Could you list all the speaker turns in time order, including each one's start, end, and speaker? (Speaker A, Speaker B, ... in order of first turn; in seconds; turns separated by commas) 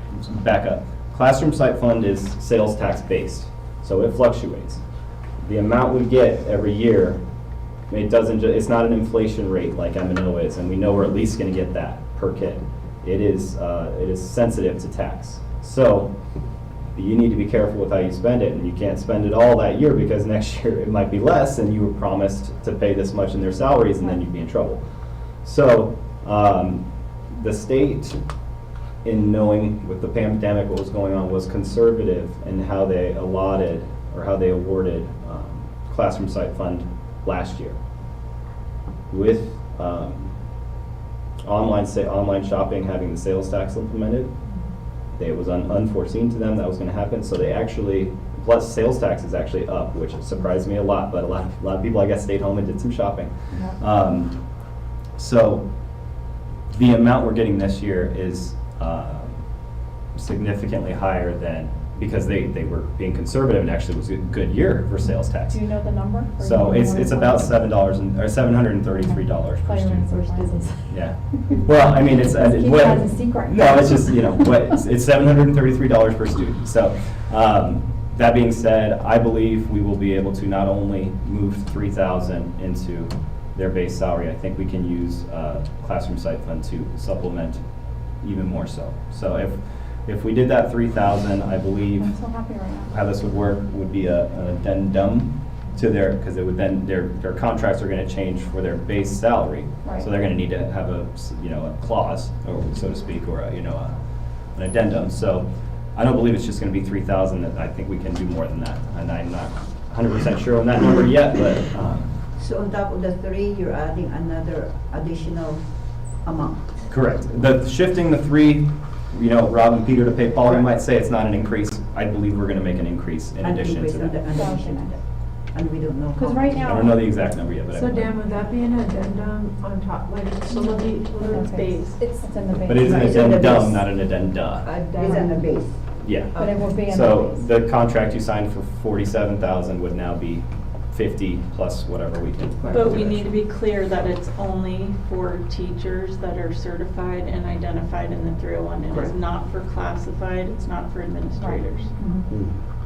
Speaker A: 0.2-4.8, Speaker A: 5.4-7.2, Speaker A: 7.9-16.1, Speaker A: 16.9-24.8, Speaker A: 25.4-28.2, Speaker A: 29.0-37.8, Speaker A: 39.1-40.3, Speaker A: 41.4-44.3, Speaker A: 45.1-54.4, Speaker A: 55.2-55.6, Speaker A: 56.7-59.4, Speaker A: 60.1-65.6, Speaker B: 65.5-67.8, Speaker A: 66.4-70.2, Speaker B: 69.1-74.8, Speaker A: 70.9-87.6, Speaker A: 88.2-92.1, Speaker B: 92.0-92.9, Speaker A: 92.9-104.0, Speaker B: 99.8-100.1, Speaker A: 104.5-112.1, Speaker C: 112.3-116.7, Speaker A: 116.9-124.2, Speaker C: 123.4-126.7, Speaker B: 124.3-124.9, Speaker B: 126.2-127.2, Speaker A: 126.6-128.1, Speaker D: 127.7-131.6, Speaker B: 131.2-133.3, Speaker E: 131.4-132.0, Speaker A: 132.6-134.7, Speaker C: 132.8-133.9, Speaker D: 134.6-135.5, Speaker C: 134.9-135.8, Speaker A: 136.0-143.2, Speaker D: 136.3-136.6, Speaker B: 136.3-137.5, Speaker E: 142.7-151.9, Speaker B: 151.3-152.3